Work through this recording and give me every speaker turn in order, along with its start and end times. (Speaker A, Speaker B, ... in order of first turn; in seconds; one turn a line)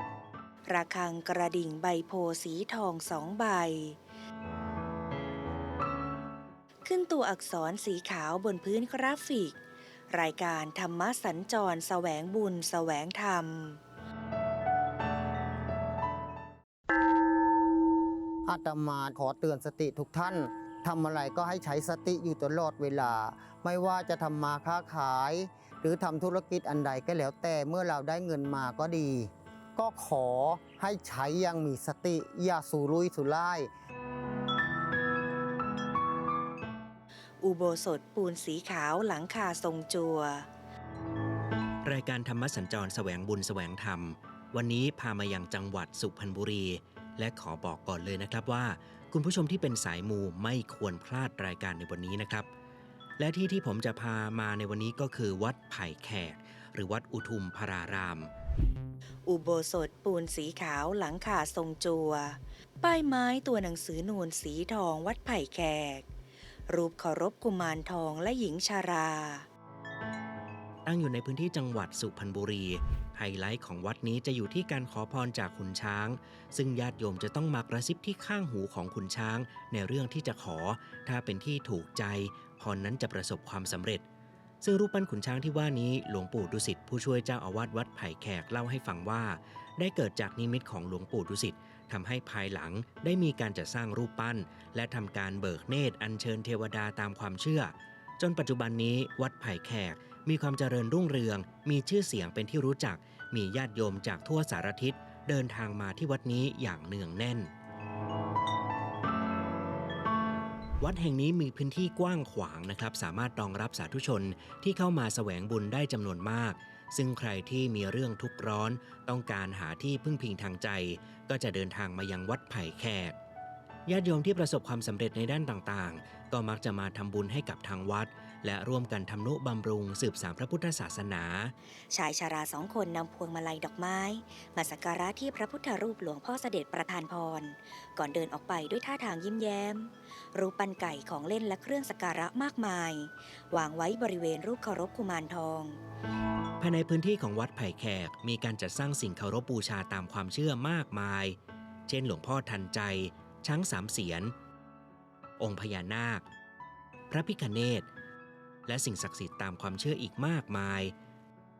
Speaker A: 0.7-4.0
Speaker A: 6.8-9.6
Speaker A: 10.1-13.8
Speaker B: 18.4-33.7
Speaker A: 37.4-40.5
Speaker C: 41.8-52.5
Speaker C: 53.2-58.3
Speaker A: 59.2-66.0
Speaker A: 66.7-69.5
Speaker C: 70.8-84.0
Speaker C: 84.6-107.5
Speaker C: 110.8-123.1
Speaker C: 123.8-131.5
Speaker A: 131.9-145.8
Speaker C: 146.6-151.3
Speaker C: 151.9-154.3
Speaker C: 155.4-156.2
Speaker C: 157.1-157.9
Speaker C: 158.7-160.9